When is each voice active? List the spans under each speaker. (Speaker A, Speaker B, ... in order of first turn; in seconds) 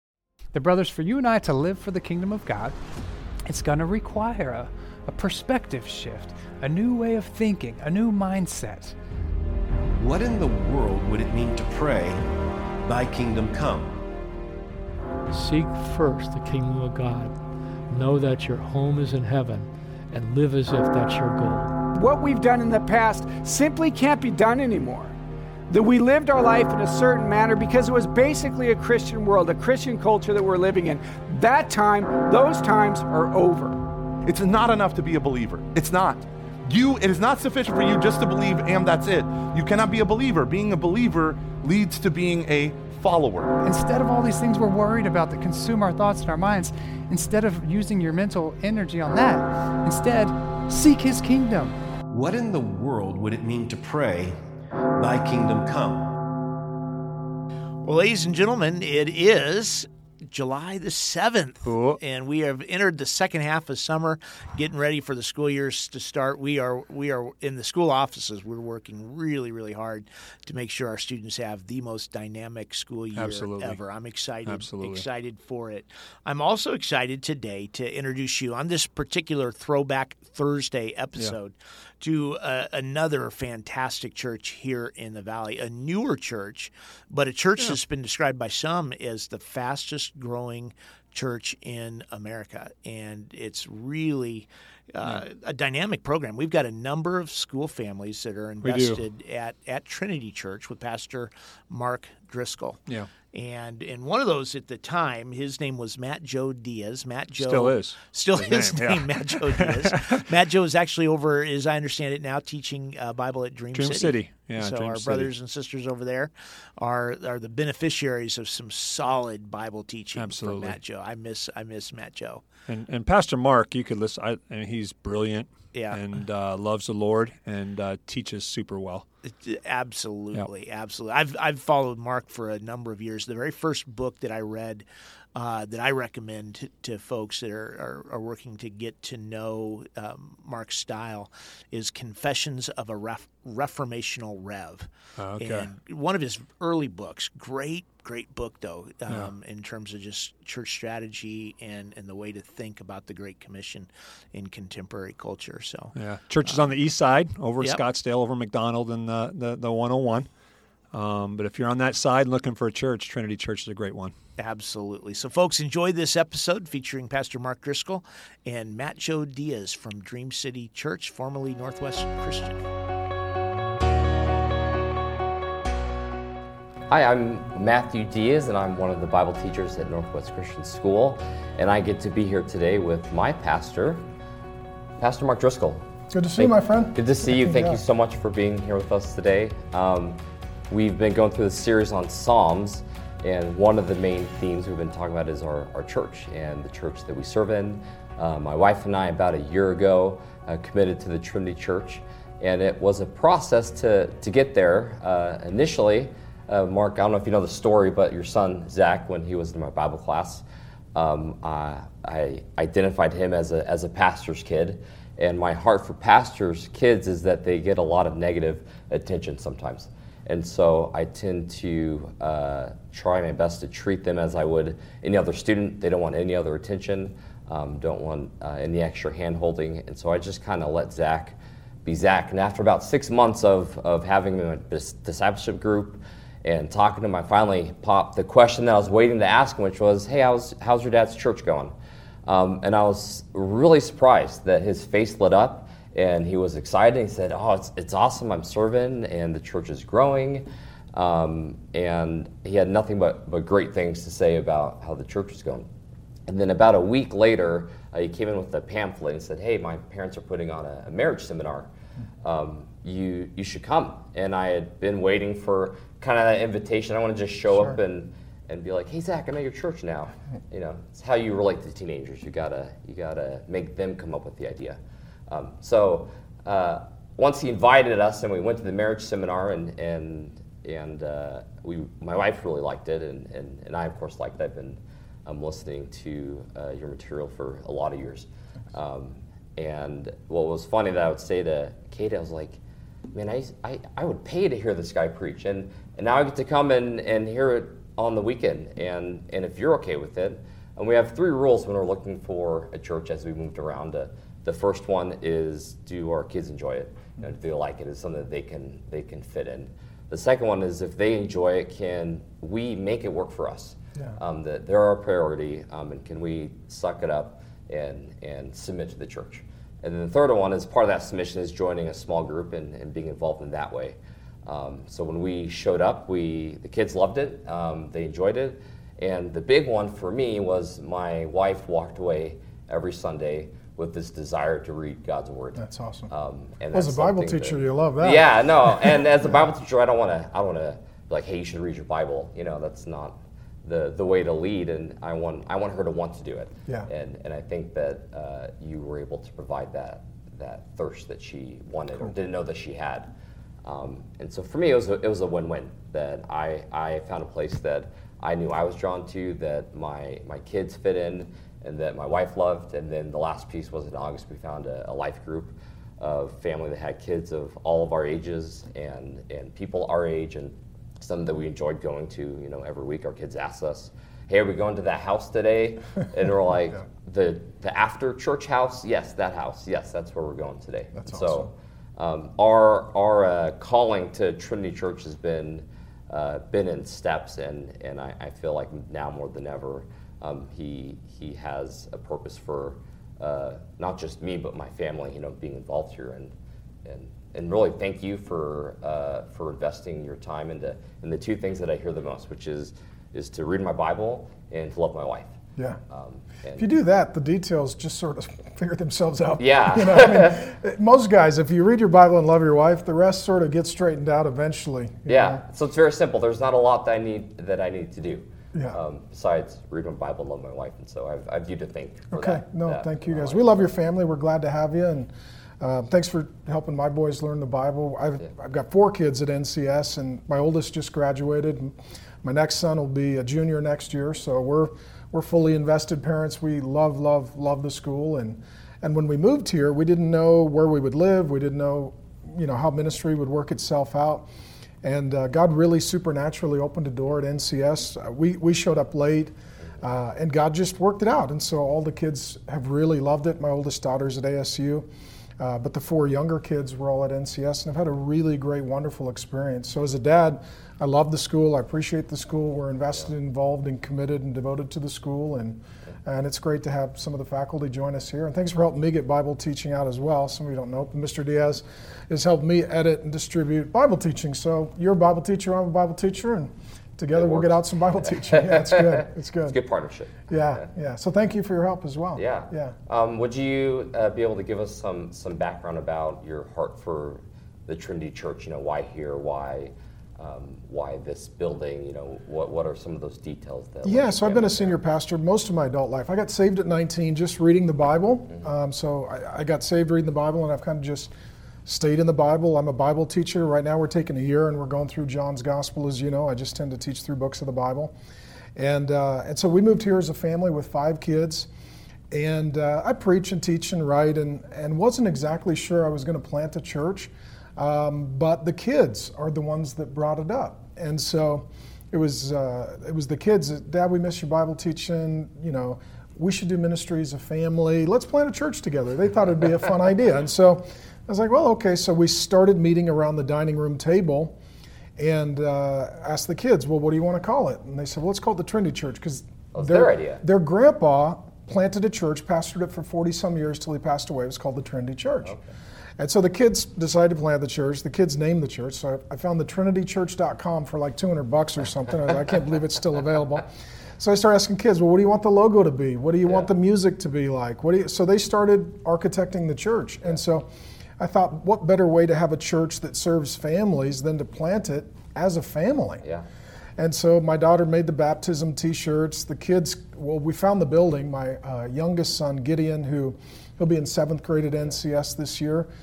Speaker A: 0.5-2.8, 3.5-8.9, 43.6-51.8
Speaker B: 9.9-12.3, 12.8-14.0, 52.1-54.4, 55.0-56.1
Speaker C: 15.3-17.4, 17.9-21.7
Speaker D: 21.9-25.1, 25.7-33.8
Speaker E: 34.3-43.5
Speaker F: 57.8-102.8, 103.3-122.5, 125.7-126.1, 129.3-156.7, 164.4-172.6
Speaker G: 61.7-62.0, 73.1-73.8, 74.4-75.1, 98.6-99.0, 107.3-110.2, 113.7-115.3, 120.2-120.8, 122.7-129.1, 145.2-145.7, 155.9-160.3, 160.9-164.1
Speaker H: 176.9-184.0, 185.0-185.8, 186.4-190.2, 190.7-241.7, 242.3-255.7, 256.3-261.7, 262.2-292.6, 293.1-353.1, 353.6-396.3, 396.9-405.4, 405.9-406.7, 409.4-410.4, 415.1-423.5, 477.1-480.7, 482.1-494.8, 539.5-540.2, 545.2-545.5, 556.2-556.5
Speaker I: 186.1-187.8, 335.6-336.1, 336.7-339.1, 381.0-381.5, 406.6-415.4, 418.5-418.8, 422.1-444.3, 444.8-454.9, 455.4-479.6, 480.3-482.8, 493.8-501.1, 501.7-507.9, 508.6-511.5, 512.1-534.4, 535.0-545.4, 546.0-553.5, 554.0-560.5, 561.0-566.0, 566.8-575.7